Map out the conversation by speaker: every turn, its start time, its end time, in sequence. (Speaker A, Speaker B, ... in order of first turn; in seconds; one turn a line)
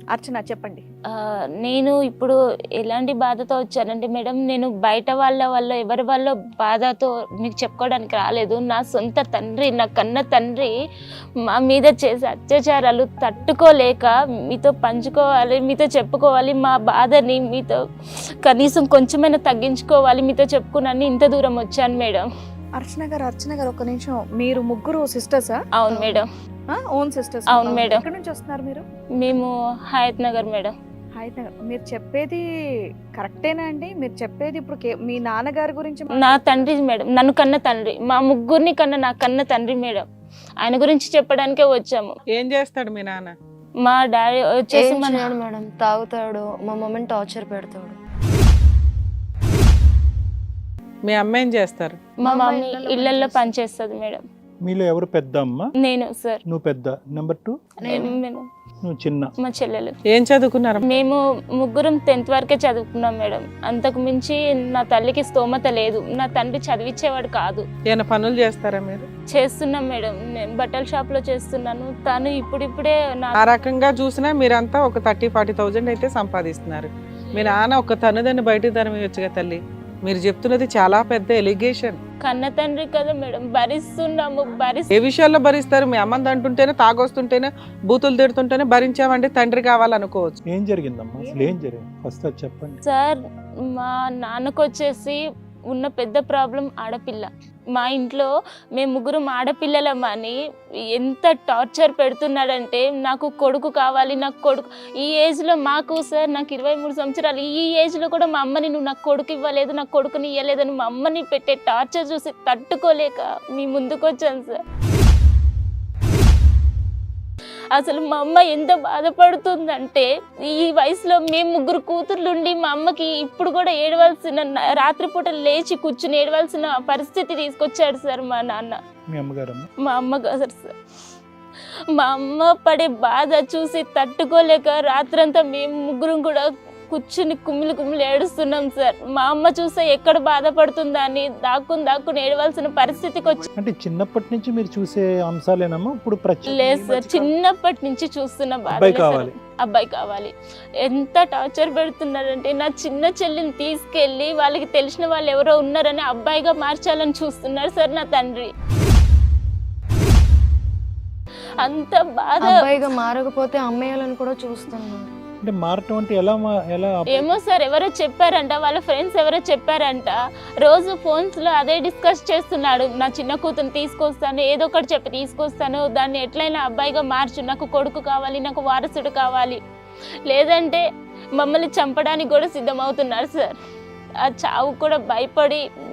Speaker A: 0.1-0.8
Speaker B: 1.6-10.7
Speaker B: 11.5-17.8
Speaker B: 18.4-22.2
Speaker A: 22.8-28.8
Speaker B: 25.8-26.2
Speaker B: 27.5-28.0
Speaker B: 29.2-30.7
Speaker A: 31.2-32.4
Speaker A: 33.2-36.7
Speaker B: 36.2-40.0
Speaker B: 40.6-42.1
Speaker C: 42.3-43.3
Speaker B: 43.8-45.3
Speaker D: 44.7-48.0
Speaker C: 51.0-52.0
Speaker B: 52.2-54.2
Speaker A: 52.3-53.5
Speaker E: 54.6-55.7
Speaker B: 55.8-56.4
Speaker E: 56.5-57.5
Speaker D: 57.8-58.2
Speaker B: 57.8-58.4
Speaker E: 58.9-59.3
Speaker B: 59.4-59.9
Speaker C: 60.1-60.8
Speaker B: 60.8-67.7
Speaker C: 67.9-69.0
Speaker B: 69.3-73.4
Speaker C: 73.4-82.0
Speaker B: 82.2-84.9
Speaker C: 84.9-90.4
Speaker E: 90.5-92.8
Speaker A: 91.2-91.6
Speaker B: 92.8-95.2
Speaker B: 95.7-100.4
Speaker B: 101.0-114.6
Speaker B: 117.7-128.8
Speaker E: 129.1-129.7
Speaker B: 129.8-130.7
Speaker B: 131.9-143.4
Speaker E: 143.6-147.3
Speaker B: 146.5-158.5
Speaker E: 148.7-149.3
Speaker B: 161.6-162.6
Speaker D: 162.4-165.1
Speaker E: 165.4-167.3
Speaker B: 167.1-179.6
Speaker B: 180.3-180.8
Speaker B: 181.4-183.5
Speaker B: 184.2-185.6